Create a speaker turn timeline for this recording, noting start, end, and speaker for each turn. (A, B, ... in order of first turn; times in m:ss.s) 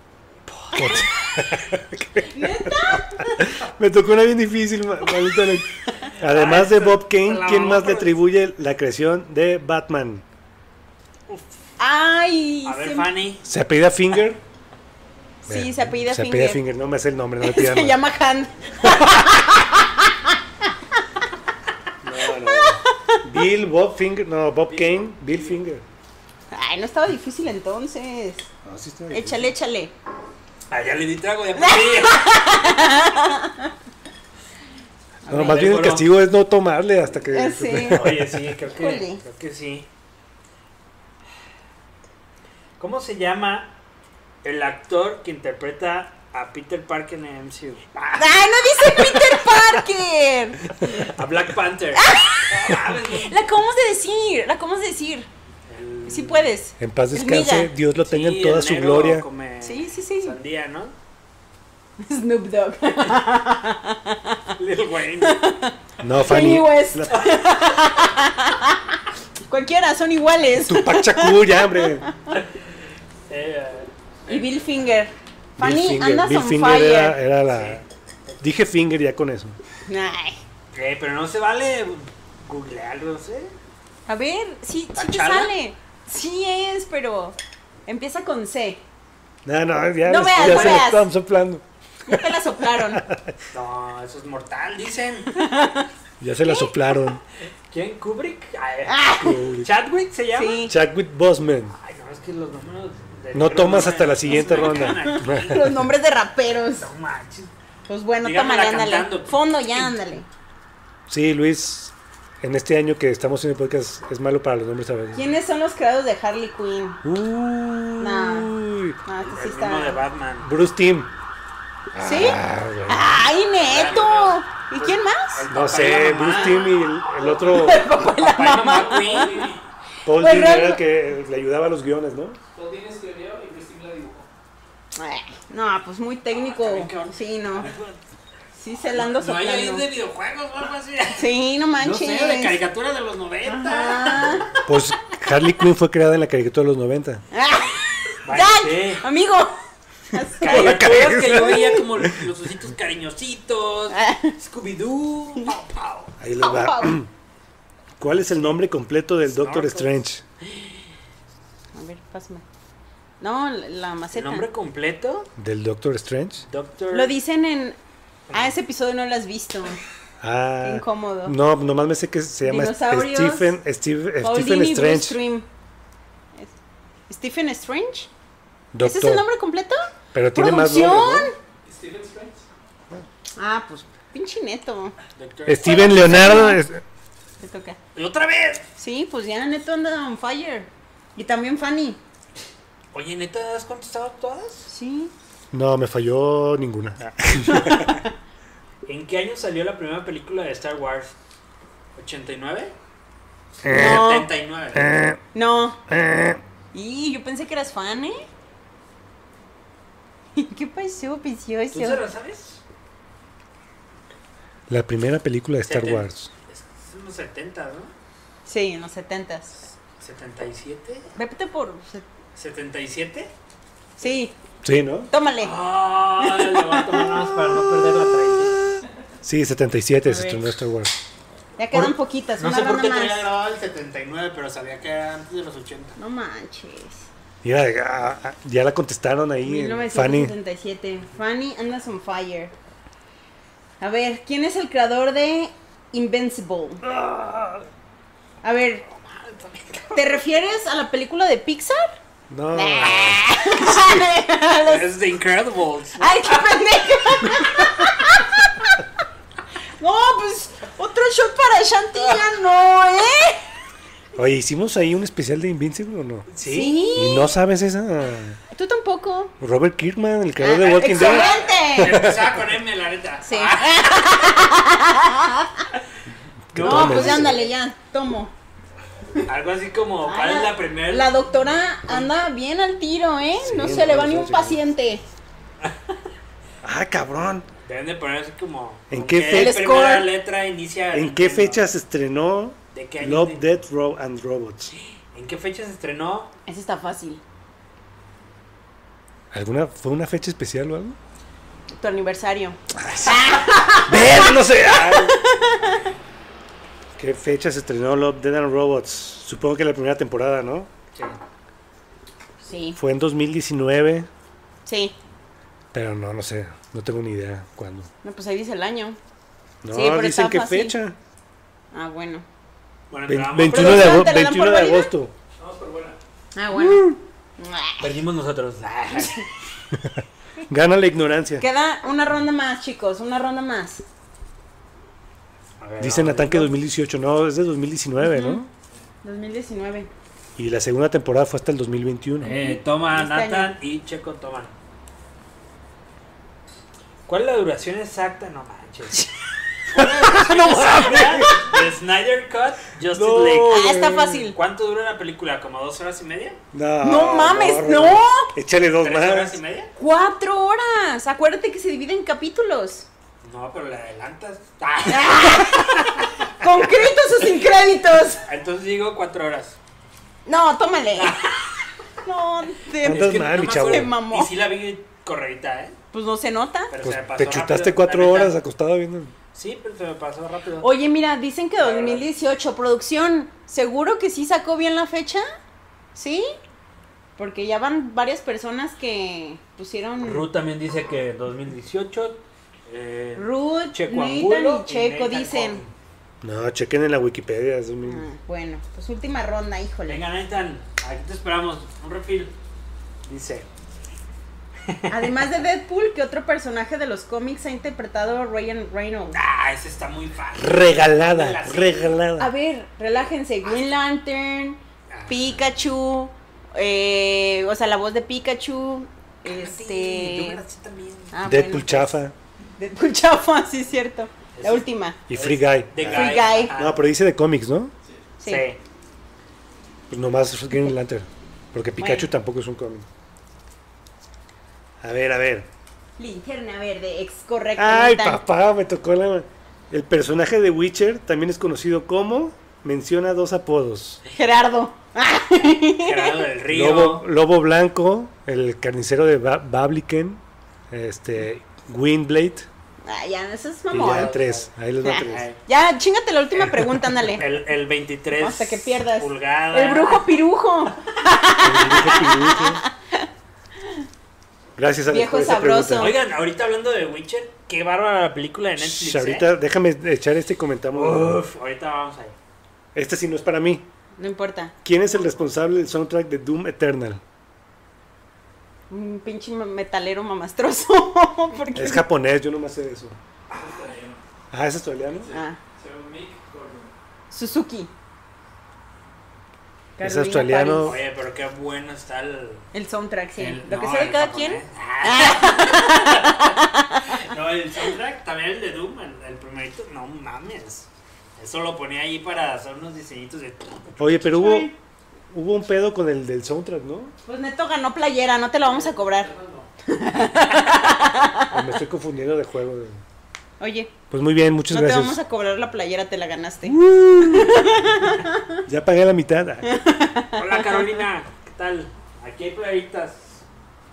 0:00.5-0:10.2 A
0:02.2-0:03.6 B
0:06.2-0:08.1 C
0:11.8-0:13.1 B
0:12.6-0:13.4 C
0:13.4-0:14.4 A
0:15.5-0:16.6 B
0:15.5-0:18.0 A
0:17.4-0:20.4 B
0:18.8-0:19.2 A
0:22.0-0:25.8 A
0:22.3-0:23.2 B
0:26.5-0:28.5 B
0:28.6-0:29.5 A
0:29.1-0:29.9 B
0:30.7-0:32.4 C
0:31.6-0:33.7 B
0:35.3-0:35.6 B
0:35.3-0:38.4 A
0:35.3-0:36.1 C
0:37.3-0:39.2 B
0:37.8-0:39.9 C
0:42.8-0:43.8 C
0:44.4-0:48.4 C
0:48.2-0:51.1 B
0:49.0-0:49.3 C
0:51.0-0:53.4 C
0:52.0-0:55.3 B
0:55.7-0:56.6 C
0:56.1-0:57.7 B
0:56.8-0:59.2 A
0:58.0-1:01.0 C
0:59.6-1:00.4 B
1:02.0-1:04.5 B
1:04.6-1:05.4 C
1:05.2-1:12.4 B
1:06.0-1:07.1 A
1:07.1-1:07.9 C
1:10.6-1:12.0 A
1:12.3-1:12.7 C
1:13.3-1:14.4 C
1:14.3-1:17.2 B
1:15.6-1:17.8 A
1:17.5-1:18.4 C
1:18.4-1:19.6 A
1:19.9-1:20.4 B
1:20.7-1:23.5 C
1:24.1-1:27.4 B
1:25.0-1:25.5 C
1:27.9-1:28.8 B
1:29.4-1:33.4 A
1:30.0-1:31.1 B
1:30.4-1:30.9 C
1:32.1-1:33.0 B
1:33.5-1:35.3 C
1:35.3-1:35.9 B
1:36.2-1:37.2 A
1:36.4-1:36.7 B
1:37.7-1:40.7 C
1:38.9-1:39.4 B
1:39.2-1:39.7 A
1:40.3-1:40.7 B
1:40.7-1:41.8 A
1:41.8-1:45.6 C
1:43.3-1:45.9 A
1:43.8-1:46.9 B
1:46.6-1:47.5 C
1:47.9-1:50.3 B
1:48.2-1:49.9 C
1:51.1-1:55.2 A
1:55.2-1:57.0 B
1:57.0-1:59.0 A
1:58.0-1:58.5 B
1:59.0-2:00.0 B
1:59.2-2:00.5 C
2:00.4-2:01.1 A
2:01.9-2:03.3 A
2:02.0-2:05.4 B
2:03.6-2:06.7 C
2:05.5-2:07.9 A
2:06.2-2:09.5 B
2:07.9-2:09.6 C
2:08.9-2:09.6 D
2:10.0-2:12.4 A
2:10.1-2:10.8 B
2:12.6-2:14.3 D
2:15.0-2:17.7 B
2:16.3-2:18.0 C
2:18.6-2:19.8 B
2:18.9-2:24.6 C
2:21.2-2:22.6 B
2:23.5-2:24.5 B
2:24.6-2:27.2 A
2:27.3-2:29.6 B
2:28.2-2:29.0 C
2:30.1-2:31.8 B
2:30.4-2:36.1 C
2:30.4-2:32.2 A
2:33.9-2:34.4 B
2:36.2-2:37.1 A
2:36.4-2:37.0 B
2:38.0-2:40.2 A
2:38.2-2:38.5 C
2:39.3-2:39.9 C
2:41.8-2:42.4 B
2:43.2-2:44.5 B
2:44.1-2:45.3 C
2:45.4-2:46.4 A
2:46.4-2:47.2 C
2:46.9-2:47.8 B
2:48.3-2:49.8 B
2:50.2-2:55.2 A
2:50.6-2:51.4 B
2:52.4-2:53.6 B
2:54.2-2:55.5 B
2:57.1-2:58.1 B
2:58.7-2:59.2 A
2:58.8-3:01.4 B
3:00.1-3:01.3 A
3:01.6-3:02.5 D
3:03.4-3:05.0 B
3:05.2-3:06.4 C
3:05.5-3:06.8 A
3:05.6-3:06.6 B
3:07.4-3:07.8 B
3:08.0-3:08.7 C
3:08.8-3:12.0 B
3:12.9-3:14.7 C
3:14.7-3:15.1 B
3:15.5-3:18.0 A
3:17.5-3:18.1 B
3:18.9-3:21.1 C
3:22.0-3:22.7 C
3:23.6-3:24.1 A
3:23.6-3:24.9 C
3:23.7-3:24.3 B
3:24.7-3:25.2 A
3:25.3-3:25.8 B
3:25.9-3:26.4 A
3:26.7-3:28.2 B
3:30.4-3:32.0 B
3:31.7-3:32.6 C
3:34.7-3:36.3 A
3:35.7-3:37.9 C
3:38.5-3:39.6 B
3:39.8-3:41.1 C
3:41.2-3:42.1 B
3:42.4-3:43.3 C
3:44.0-3:44.4 B
3:44.6-3:45.1 A
3:45.1-3:45.6 B
3:45.4-3:48.6 C
3:46.2-3:47.1 B
3:49.2-3:50.9 A
3:50.0-3:50.4 B
3:51.6-3:53.2 B
3:52.4-3:56.0 C
3:56.0-3:57.1 B
3:57.4-4:00.3 A
3:59.4-4:02.5 B
4:03.8-4:06.8 B
4:06.8-4:07.7 A
4:08.4-4:08.9 B
4:08.9-4:10.2 C
4:09.9-4:12.0 B
4:12.3-4:14.0 A
4:12.5-4:14.9 B
4:14.6-4:16.2 C
4:16.0-4:18.8 B
4:19.8-4:23.5 B
4:22.0-4:22.3 C
4:24.2-4:26.3 A
4:26.3-4:27.0 C
4:26.4-4:27.3 B
4:27.0-4:28.4 A
4:28.5-4:29.3 B
4:29.4-4:32.4 A
4:30.4-4:32.0 B
4:30.5-4:34.5 C
4:33.3-4:35.7 B
4:36.5-4:37.4 A
4:36.6-4:37.4 C
4:36.6-4:38.3 B
4:39.3-4:41.1 C
4:40.0-4:45.0 B
4:43.4-4:44.6 A
4:45.6-4:45.9 C
4:46.6-4:47.5 A
4:47.6-4:51.6 C
4:48.9-4:49.6 A
4:49.3-4:50.1 B
4:50.9-4:54.7 A
4:52.7-4:53.4 C
4:55.0-4:56.3 C
4:56.5-4:57.2 B
4:59.3-5:01.0 A
5:01.7-5:05.8 B
5:02.8-5:03.2 A
5:03.9-5:05.2 A
5:05.6-5:05.9 C
5:07.0-5:10.7 A
5:12.4-5:12.8 B
5:12.8-5:14.1 A
5:14.7-5:15.0 B
5:15.7-5:17.9 A
5:18.0-5:19.0 B
5:19.6-5:21.0 A
5:19.7-5:20.8 B
5:21.7-5:22.2 B
5:22.9-5:24.1 C
5:23.1-5:25.1 A
5:23.5-5:24.9 B
5:25.4-5:26.0 D
5:26.4-5:28.0 B
5:26.5-5:27.0 A
5:27.8-5:29.3 C
5:29.7-5:31.4 A
5:31.4-5:33.8 B
5:35.6-5:36.5 C
5:35.8-5:38.5 A
5:38.0-5:38.4 B
5:39.0-5:39.9 B
5:40.4-5:42.3 A
5:42.2-5:44.5 C
5:42.2-5:43.5 B
5:47.1-5:49.1 C
5:49.7-5:53.8 C
5:49.8-5:51.6 B
5:50.3-5:51.3 A
5:52.9-5:54.3 A
5:53.5-5:54.4 B
5:54.3-5:56.4 C
5:56.5-5:59.4 A
5:56.8-5:58.3 B
5:58.8-5:59.7 C
5:59.8-6:02.9 B
6:03.2-6:06.1 C
6:04.9-6:08.2 B
6:08.2-6:09.6 C
6:10.3-6:11.2 B
6:11.0-6:11.6 C
6:12.0-6:14.3 B
6:12.8-6:13.9 A
6:12.8-6:15.8 C
6:15.9-6:16.7 B
6:16.7-6:18.4 C
6:16.8-6:19.1 A
6:19.3-6:20.7 C
6:20.6-6:25.2 B
6:21.6-6:22.1 C
6:26.0-6:26.3 B
6:27.2-6:30.3 B
6:30.0-6:35.7 C
6:33.2-6:35.6 B
6:36.2-6:38.1 A
6:37.8-6:40.0 B
6:39.9-6:42.3 C
6:43.1-6:43.5 C
6:44.6-6:45.3 C
6:44.9-6:49.2 B
6:49.1-6:52.0 C
6:50.4-6:52.3 A
6:52.2-7:00.4 B
6:54.9-6:55.4 C
6:59.2-7:01.1 C
7:01.1-7:02.0 B
7:01.2-7:02.2 A
7:02.6-7:05.0 B
7:04.4-7:06.8 C
7:05.1-7:07.7 A
7:05.8-7:06.5 B
7:08.2-7:08.5 B
7:08.2-7:08.6 C
7:09.9-7:12.9 A
7:11.8-7:12.1 B
7:14.8-7:15.5 A
7:16.0-7:18.2 B
7:17.6-7:24.0 A
7:24.1-7:26.2 B
7:25.8-7:27.0 C
7:26.5-7:30.2 A
7:30.7-7:32.5 A
7:32.8-7:34.2 B
7:33.7-7:35.3 A
7:33.8-7:34.5 C
7:34.8-7:37.2 B
7:35.0-7:35.4 C
7:36.4-7:40.1 C
7:38.2-7:43.1 B
7:41.4-7:42.6 A
7:44.6-7:45.9 A
7:44.9-7:46.0 B
7:45.8-7:49.3 C
7:48.6-7:51.2 A
7:50.7-7:52.2 C
7:52.7-7:53.6 A
7:54.0-7:54.5 B
7:54.6-7:57.0 A
7:58.7-8:01.8 B
8:01.6-8:03.0 A
8:03.3-8:03.7 C
8:03.3-8:04.0 D
8:04.3-8:05.1 A
8:04.9-8:06.7 D
8:05.1-8:05.4 B
8:07.1-8:07.7 B
8:09.8-8:10.8 B
8:09.8-8:10.8 A
8:10.6-8:12.5 C
8:12.5-8:17.0 B
8:13.2-8:24.5 C
8:23.8-8:24.5 A
8:24.2-8:24.5 B
8:25.1-8:26.9 A
8:27.0-8:29.1 B
8:28.6-8:29.5 D
8:29.7-8:31.4 B
8:31.3-8:32.8 A
8:33.4-8:33.7 B
8:33.9-8:35.0 A
8:34.5-8:38.4 B
8:36.4-8:37.7 A
8:38.5-8:39.5 A
8:39.4-8:40.8 B
8:40.2-8:43.3 C